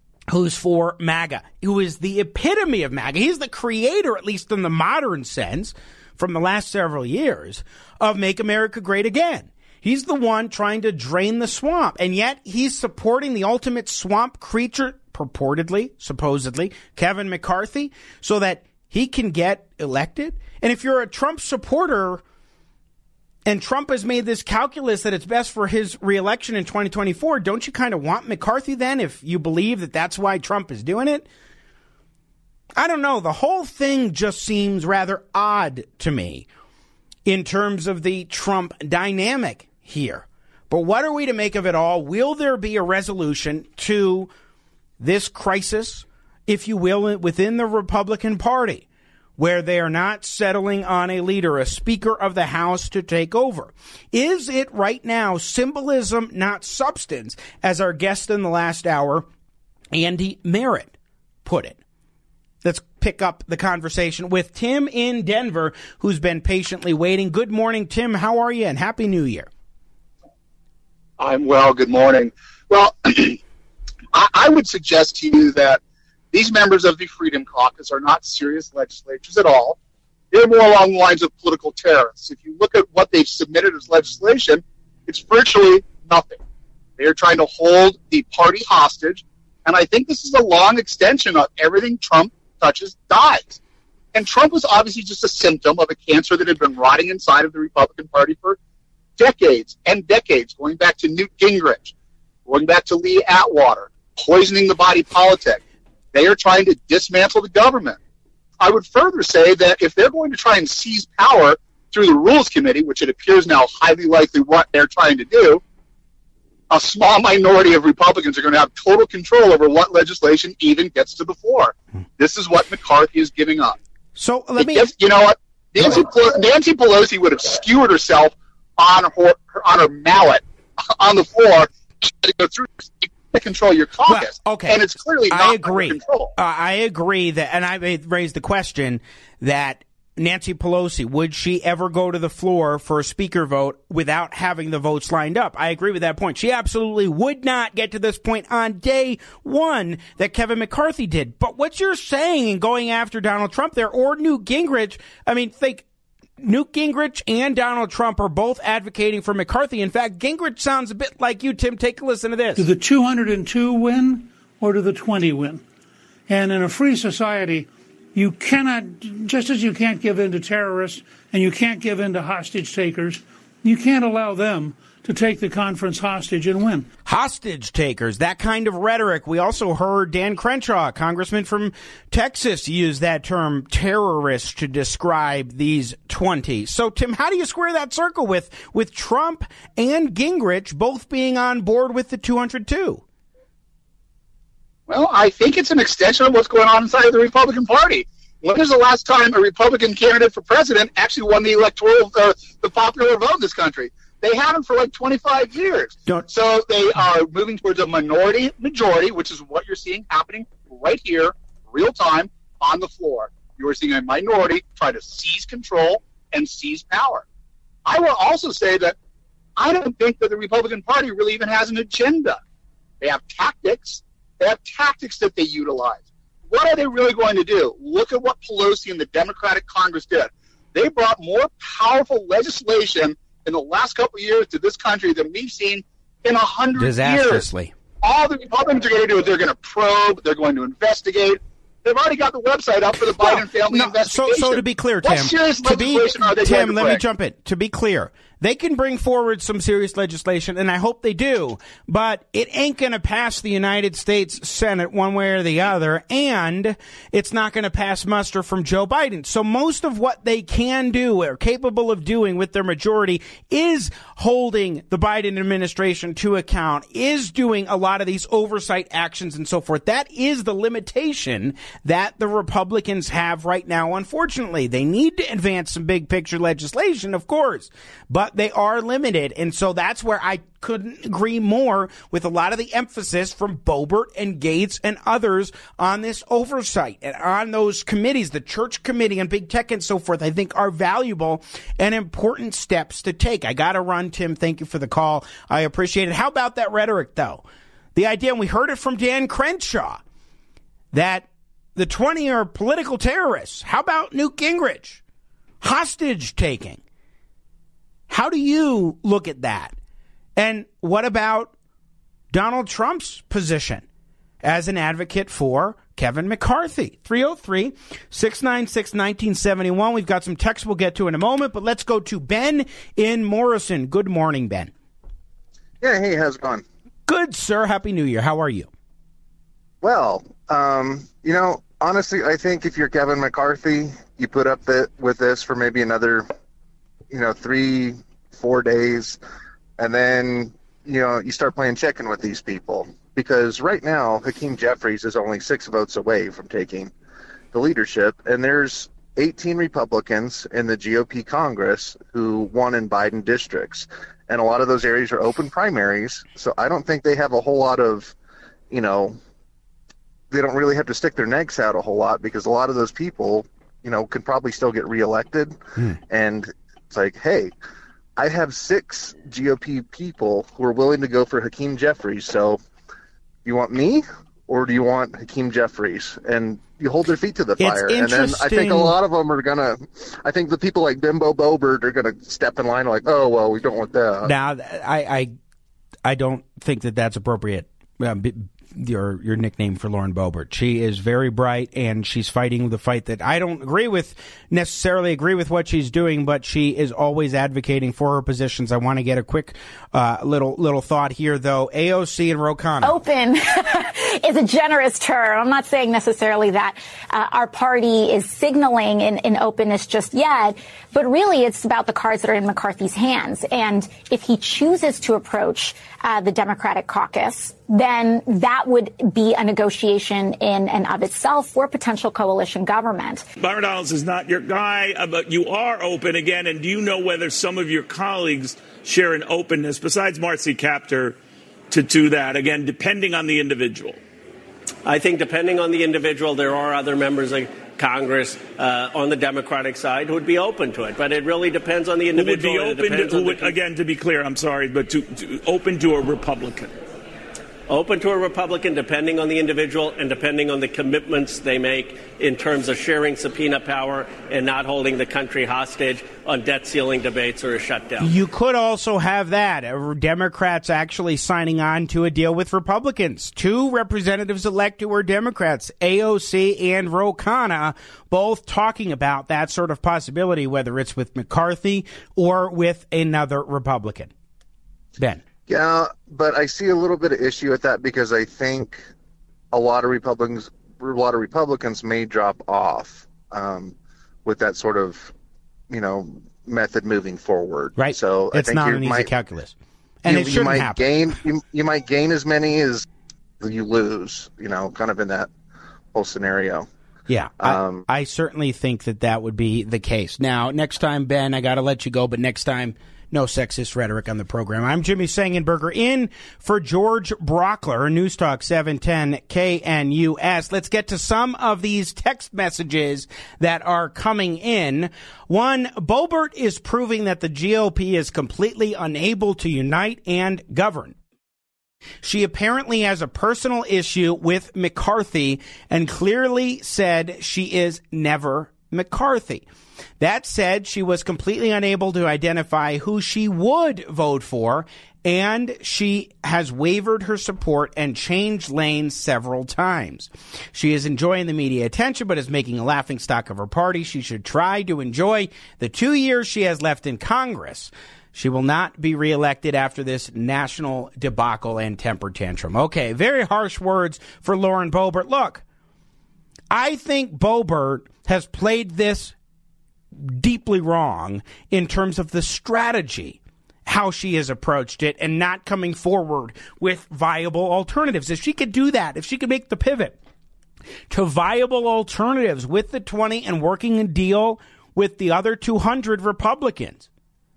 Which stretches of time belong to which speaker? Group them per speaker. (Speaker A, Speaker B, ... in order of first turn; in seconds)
Speaker A: 0.3-22.2, 23.4-31.2, 32.8-36.5, 37.2-44.3, 45.0-48.8, 49.4-59.3, 59.9-60.9, 61.4-61.8, 62.6-69.5, 124.2-124.9, 134.1-155.8, 156.4-162.7, 177.0-193.0, 236.8-237.7, 243.2-297.4, 297.9-300.0, 300.9-305.0, 305.6-306.8, 308.1-309.7, 310.4-311.5, 312.3-313.8, 314.4-324.7, 327.1-328.7, 377.6-378.9, 384.2-385.3, 386.0-402.9, 458.0-474.1, 487.8-490.8, 497.1-521.0, 522.0-529.4, 530.0-555.4, 556.5-559.1, 559.9-570.0, 570.9-576.9
Speaker B: 71.2-73.4, 74.1-75.8, 76.3-79.8, 80.3-86.4, 87.0-93.6, 94.1-98.6, 99.2-101.9, 102.5-105.6, 106.1-108.0, 108.6-115.6, 116.7-123.8, 124.6-136.3, 194.9-217.2, 217.8-218.9, 219.6-222.4, 223.0-237.5, 238.0-247.0
Speaker C: 162.6-165.6, 166.3-176.9
Speaker D: 325.8-326.6, 329.8-336.2, 337.1-339.2, 339.8-346.9, 347.5-358.1, 358.7-359.2, 360.3-365.6, 366.1-367.5, 368.2-372.6, 373.4-384.3, 475.5-478.8, 479.5-485.1, 485.7-489.1, 490.1-492.9, 493.4-495.3, 495.9-496.7, 497.4-497.8
Speaker E: 402.8-423.2
Speaker F: 423.4-431.2, 431.7-434.0, 442.1-446.7
Speaker G: 434.8-443.6, 447.7-458.1